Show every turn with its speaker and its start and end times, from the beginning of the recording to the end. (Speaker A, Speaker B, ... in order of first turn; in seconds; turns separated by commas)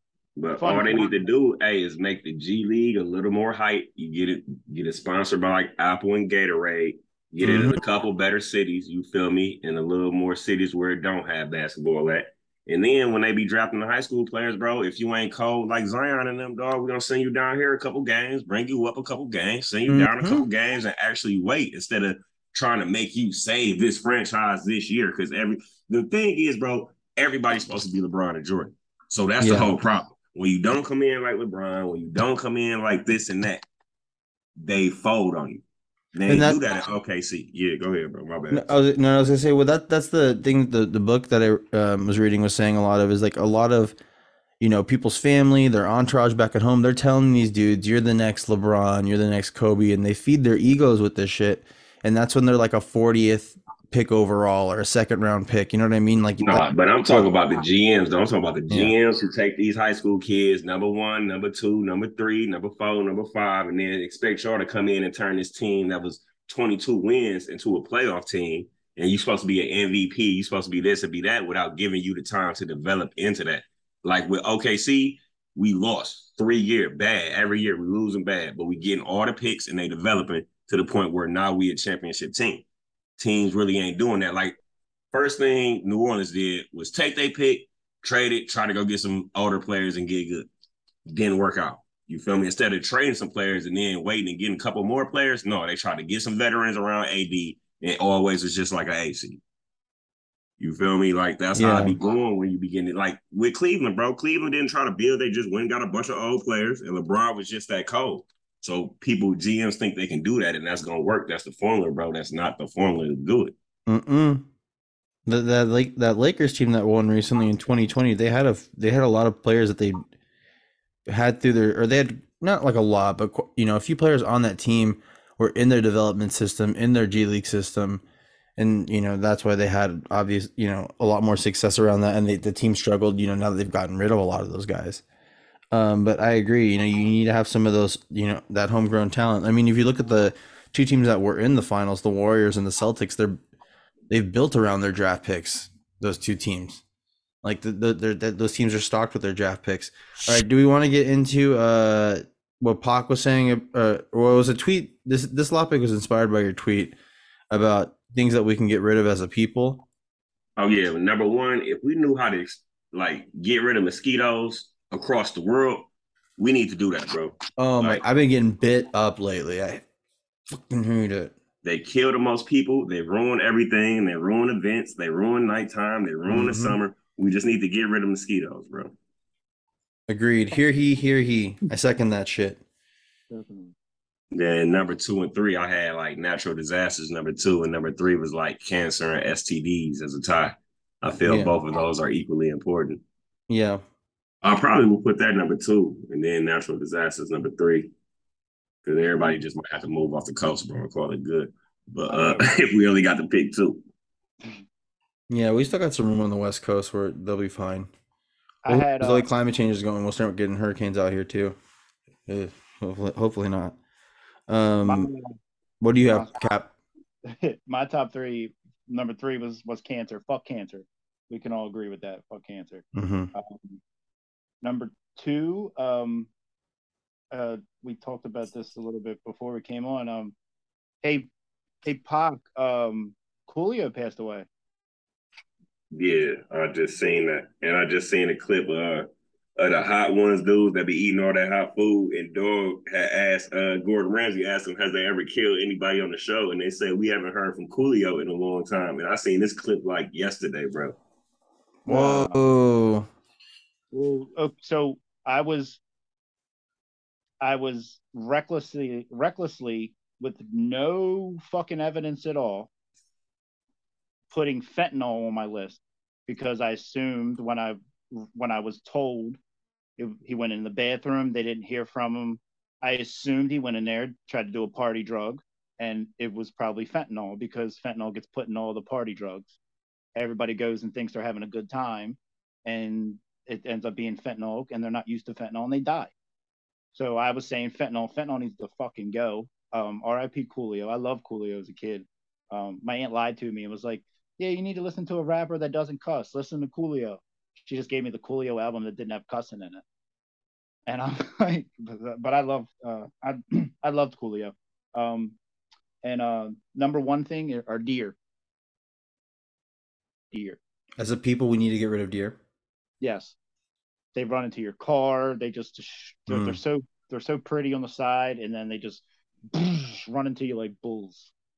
Speaker A: 0.4-33.6, Speaker B: 0.6-1.2, Speaker C: 7.4-7.8, Speaker C: 19.9-20.4, Speaker C: 29.4-29.7, Speaker A: 34.6-35.6, Speaker A: 36.1-38.7, Speaker C: 36.3-36.6, Speaker C: 38.5-43.9, Speaker C: 44.6-57.3, Speaker A: 56.4-82.6, Speaker C: 58.7-58.9, Speaker A: 83.2-84.5, Speaker A: 85.1-90.5, Speaker A: 91.1-99.4, Speaker A: 100.6-113.5, Speaker C: 101.5-102.0, Speaker C: 113.9-114.5, Speaker C: 115.3-120.1, Speaker C: 121.1-128.0, Speaker C: 128.6-135.0, Speaker C: 135.7-143.4, Speaker C: 144.1-146.8, Speaker C: 147.4-156.9, Speaker C: 157.5-159.8, Speaker A: 160.6-168.0, Speaker C: 167.6-169.8, Speaker C: 170.5-171.3, Speaker A: 171.6-178.9, Speaker C: 176.3-176.8, Speaker C: 180.1-182.6, Speaker B: 183.3-183.7, Speaker A: 184.3-193.0, Speaker C: 191.2-191.5, Speaker C: 193.5-193.8, Speaker A: 194.4-197.9, Speaker A: 198.8-203.8, Speaker B: 202.1-202.5, Speaker C: 205.3-207.9, Speaker B: 208.6-209.3, Speaker C: 208.7-211.6, Speaker C: 212.3-213.8, Speaker C: 214.5-215.1, Speaker B: 214.8-215.4, Speaker C: 215.8-216.7, Speaker B: 216.0-216.3, Speaker B: 217.3-223.8, Speaker C: 222.9-223.3, Speaker B: 224.6-226.3, Speaker B: 227.3-230.3, Speaker B: 231.0-231.3, Speaker B: 231.8-234.5, Speaker A: 235.9-250.9, Speaker C: 251.8-253.1, Speaker B: 251.9-252.4, Speaker B: 253.9-255.8, Speaker B: 257.4-262.7, Speaker B: 264.3-269.4, Speaker B: 270.0-279.6, Speaker B: 280.1-286.1, Speaker B: 286.9-299.8, Speaker B: 300.9-305.4, Speaker B: 306.0-308.1, Speaker B: 310.3-310.6, Speaker C: 311.0-312.4, Speaker B: 313.0-313.4, Speaker B: 314.1-321.3, Speaker C: 316.3-316.6